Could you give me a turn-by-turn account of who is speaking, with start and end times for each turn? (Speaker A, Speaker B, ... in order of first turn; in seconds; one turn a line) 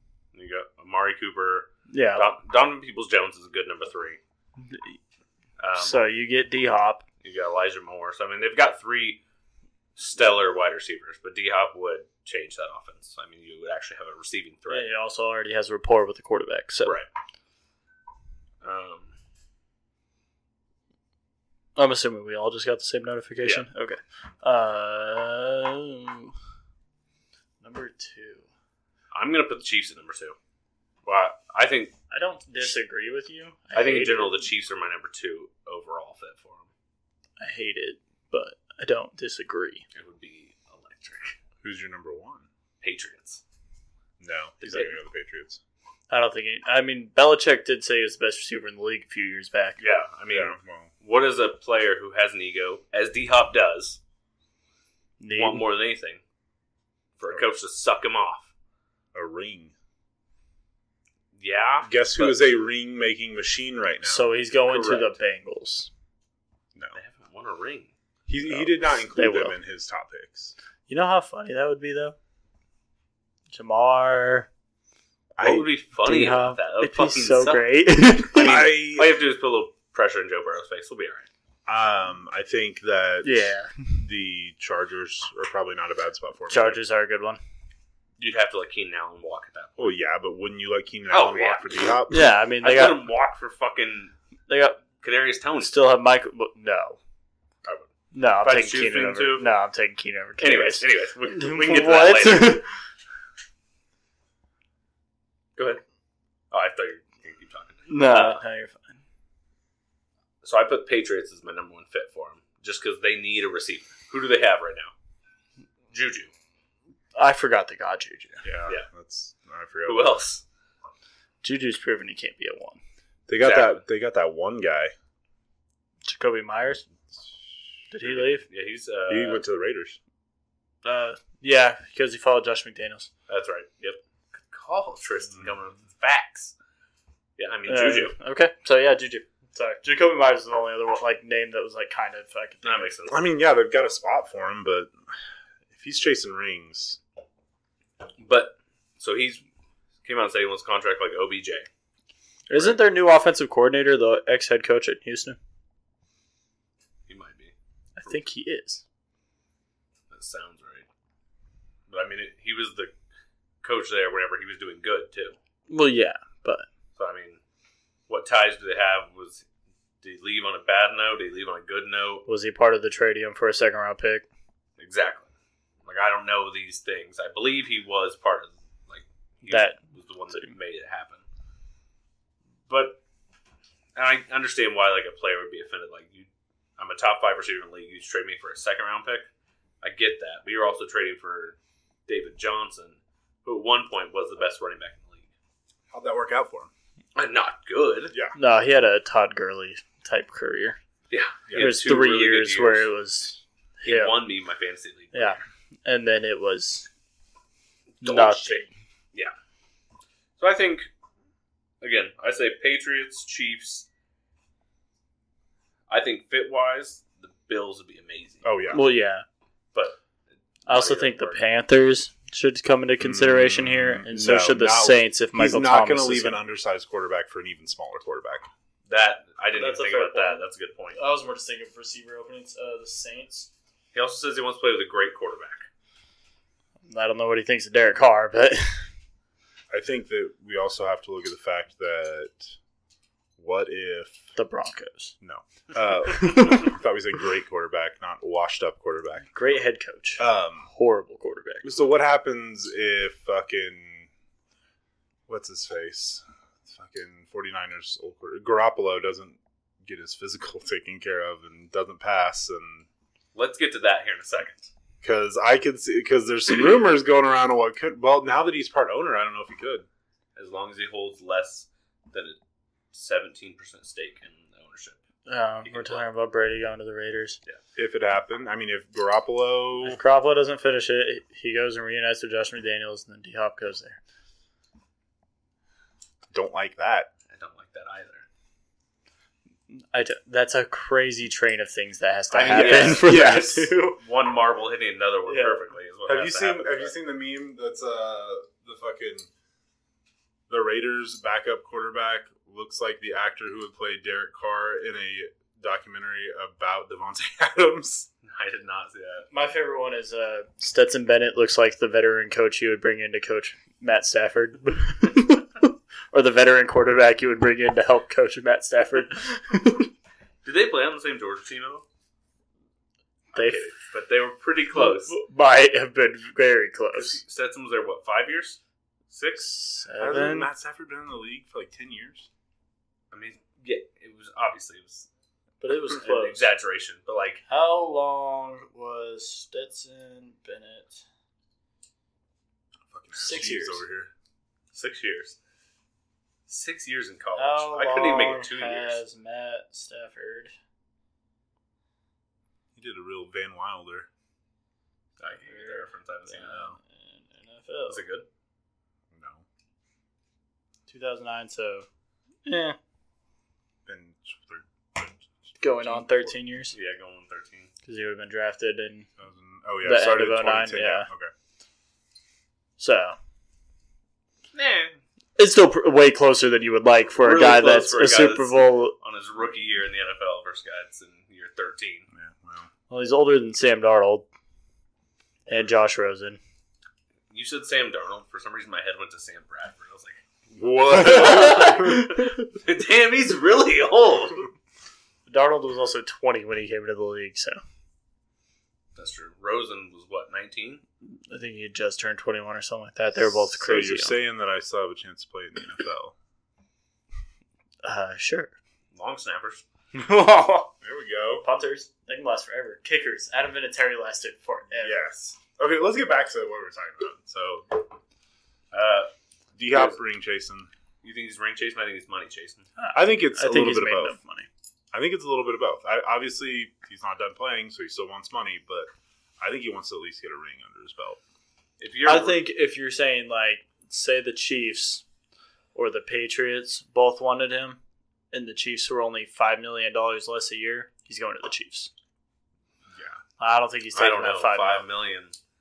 Speaker A: 0.3-4.2
Speaker B: 1.9-2.3
Speaker B: 4.7-5.0
Speaker A: 5.6-6.0
Speaker B: 5.8-7.0
Speaker A: 7.2-9.2
Speaker A: 9.9-14.9
Speaker B: 14.7-16.9
Speaker A: 18.6-19.1
Speaker B: 21.8-26.3
Speaker B: 27.6-28.5
Speaker A: 29.1-30.4
Speaker A: 31.0-31.9
Speaker B: 32.1-34.4
Speaker A: 33.7-36.7
Speaker B: 37.4-39.8
Speaker A: 39.9-41.4
Speaker C: 41.6-42.5
Speaker A: 42.8-43.4
Speaker C: 44.2-45.6
Speaker A: 44.6-45.0
Speaker B: 46.1-49.8
Speaker A: 49.8-54.0
Speaker C: 50.3-50.9
Speaker B: 55.2-55.6
Speaker A: 55.3-56.2
Speaker A: 57.2-58.5
Speaker C: 59.1-59.7
Speaker A: 61.4-62.5
Speaker C: 61.8-64.2
Speaker B: 64.0-65.9
Speaker A: 64.7-65.1
Speaker A: 66.9-67.9
Speaker C: 68.3-70.5
Speaker B: 69.1-69.5
Speaker B: 70.9-72.2
Speaker B: 73.5-74.5
Speaker C: 75.3-75.7
Speaker A: 75.4-77.7
Speaker B: 76.0-78.5
Speaker A: 78.3-81.3
Speaker C: 78.4-79.2
Speaker C: 81.7-86.8
Speaker B: 83.2-83.9
Speaker B: 86.5-87.4
Speaker A: 88.2-90.0
Speaker C: 89.8-92.3
Speaker A: 91.1-91.8
Speaker B: 92.1-93.0
Speaker A: 92.6-94.1
Speaker B: 94.5-94.8
Speaker A: 95.0-95.7
Speaker B: 95.6-97.0
Speaker A: 97.6-99.5
Speaker B: 98.1-102.7
Speaker A: 100.4-102.6
Speaker A: 105.5-105.8
Speaker A: 106.5-108.4
Speaker B: 107.9-109.0
Speaker A: 110.4-114.9
Speaker A: 115.9-116.3
Speaker B: 117.1-118.4
Speaker C: 118.4-120.2
Speaker A: 119.8-120.4
Speaker B: 121.4-122.8
Speaker C: 123.3-124.9
Speaker A: 123.4-123.8
Speaker B: 126.0-126.8
Speaker B: 127.9-128.4
Speaker A: 128.1-129.4
Speaker C: 129.1-130.0
Speaker B: 130.8-133.1
Speaker A: 133.3-136.5
Speaker A: 137.4-138.1
Speaker B: 137.7-142.9
Speaker A: 142.6-143.2
Speaker C: 143.1-144.9
Speaker C: 145.7-147.0
Speaker A: 148.2-149.4
Speaker A: 150.0-151.7
Speaker B: 152.5-155.4
Speaker A: 157.1-158.2
Speaker B: 158.0-158.8
Speaker A: 160.1-160.9
Speaker A: 161.9-162.9
Speaker A: 163.6-165.3
Speaker B: 165.7-166.7
Speaker A: 166.9-167.4
Speaker A: 168.1-169.4
Speaker A: 170.0-172.2
Speaker B: 172.3-174.2
Speaker A: 174.8-175.3
Speaker A: 175.8-181.2
Speaker B: 179.4-179.8
Speaker A: 182.7-183.0
Speaker A: 183.9-189.3
Speaker A: 189.8-195.3
Speaker C: 195.9-196.7
Speaker A: 197.1-198.1
Speaker B: 198.3-200.8
Speaker A: 201.1-202.9
Speaker C: 201.5-201.8
Speaker B: 201.5-204.2
Speaker A: 203.8-205.4
Speaker B: 205.1-206.9
Speaker A: 208.0-209.3
Speaker B: 208.0-208.7
Speaker A: 210.4-210.9
Speaker A: 211.8-213.9
Speaker A: 215.9-218.4
Speaker C: 218.4-218.8
Speaker B: 218.7-219.2
Speaker A: 220.7-221.4
Speaker B: 220.7-226.4
Speaker C: 223.0-228.5
Speaker A: 228.9-231.0
Speaker B: 229.5-230.4
Speaker B: 230.9-233.5
Speaker A: 233.9-235.7
Speaker B: 236.8-238.9
Speaker C: 239.7-242.6
Speaker C: 243.4-244.3
Speaker B: 244.3-245.2
Speaker C: 245.2-249.3
Speaker B: 246.1-246.7
Speaker B: 249.2-251.7
Speaker C: 250.2-250.7
Speaker C: 251.6-254.1
Speaker C: 255.3-262.9
Speaker A: 263.3-264.7
Speaker C: 265.0-269.9
Speaker A: 270.4-272.4
Speaker A: 272.9-275.0
Speaker B: 275.2-277.4
Speaker A: 275.6-276.0
Speaker C: 277.8-280.0
Speaker B: 279.8-284.0
Speaker C: 286.3-287.1
Speaker A: 287.3-288.2
Speaker B: 289.7-294.0
Speaker A: 292.3-296.9
Speaker C: 292.4-293.6
Speaker B: 295.2-295.6
Speaker C: 296.1-299.3
Speaker C: 300.5-308.1
Speaker A: 308.2-309.3
Speaker B: 309.3-319.9
Speaker A: 320.4-321.8
Speaker A: 323.3-325.1
Speaker B: 323.3-323.7
Speaker B: 324.7-327.2
Speaker A: 326.9-329.5
Speaker B: 329.4-330.5
Speaker C: 330.0-332.3
Speaker A: 333.1-335.1
Speaker B: 335.6-336.5
Speaker A: 335.9-337.4
Speaker B: 337.5-341.0
Speaker C: 342.9-344.1
Speaker B: 343.1-343.8
Speaker A: 344.7-345.4
Speaker A: 346.5-349.0
Speaker B: 347.4-350.5
Speaker C: 352.7-354.1
Speaker A: 355.2-356.8
Speaker B: 355.4-358.0
Speaker A: 357.9-358.2
Speaker C: 359.1-359.4
Speaker B: 360.9-361.9
Speaker B: 362.4-362.8
Speaker C: 363.9-366.4
Speaker B: 365.6-366.7
Speaker A: 366.7-367.7
Speaker B: 367.9-369.1
Speaker C: 369.2-371.3
Speaker B: 369.8-371.1
Speaker B: 372.8-373.1
Speaker A: 374.5-375.0
Speaker B: 375.4-378.9
Speaker A: 377.2-382.1
Speaker C: 382.1-382.7
Speaker B: 382.9-384.3
Speaker B: 385.5-386.4
Speaker A: 387.3-390.2
Speaker C: 390.5-392.1
Speaker A: 390.9-394.5
Speaker B: 391.0-392.2
Speaker B: 395.3-397.6
Speaker A: 398.9-400.8
Speaker B: 401.3-404.1
Speaker C: 403.2-406.1
Speaker B: 407.8-408.5
Speaker A: 408.9-409.6
Speaker B: 409.9-410.7
Speaker C: 410.8-411.4
Speaker B: 411.4-415.1
Speaker C: 414.8-417.8
Speaker A: 418.7-419.1
Speaker C: 419.6-420.7
Speaker A: 419.7-420.0
Speaker A: 421.0-422.6
Speaker B: 422.8-424.5
Speaker C: 422.9-424.2
Speaker C: 424.9-428.9
Speaker C: 429.4-431.2
Speaker A: 431.8-432.4
Speaker B: 432.0-435.0
Speaker B: 435.7-437.8
Speaker B: 438.3-441.9
Speaker C: 442.9-443.2
Speaker B: 443.4-444.8
Speaker A: 443.9-445.4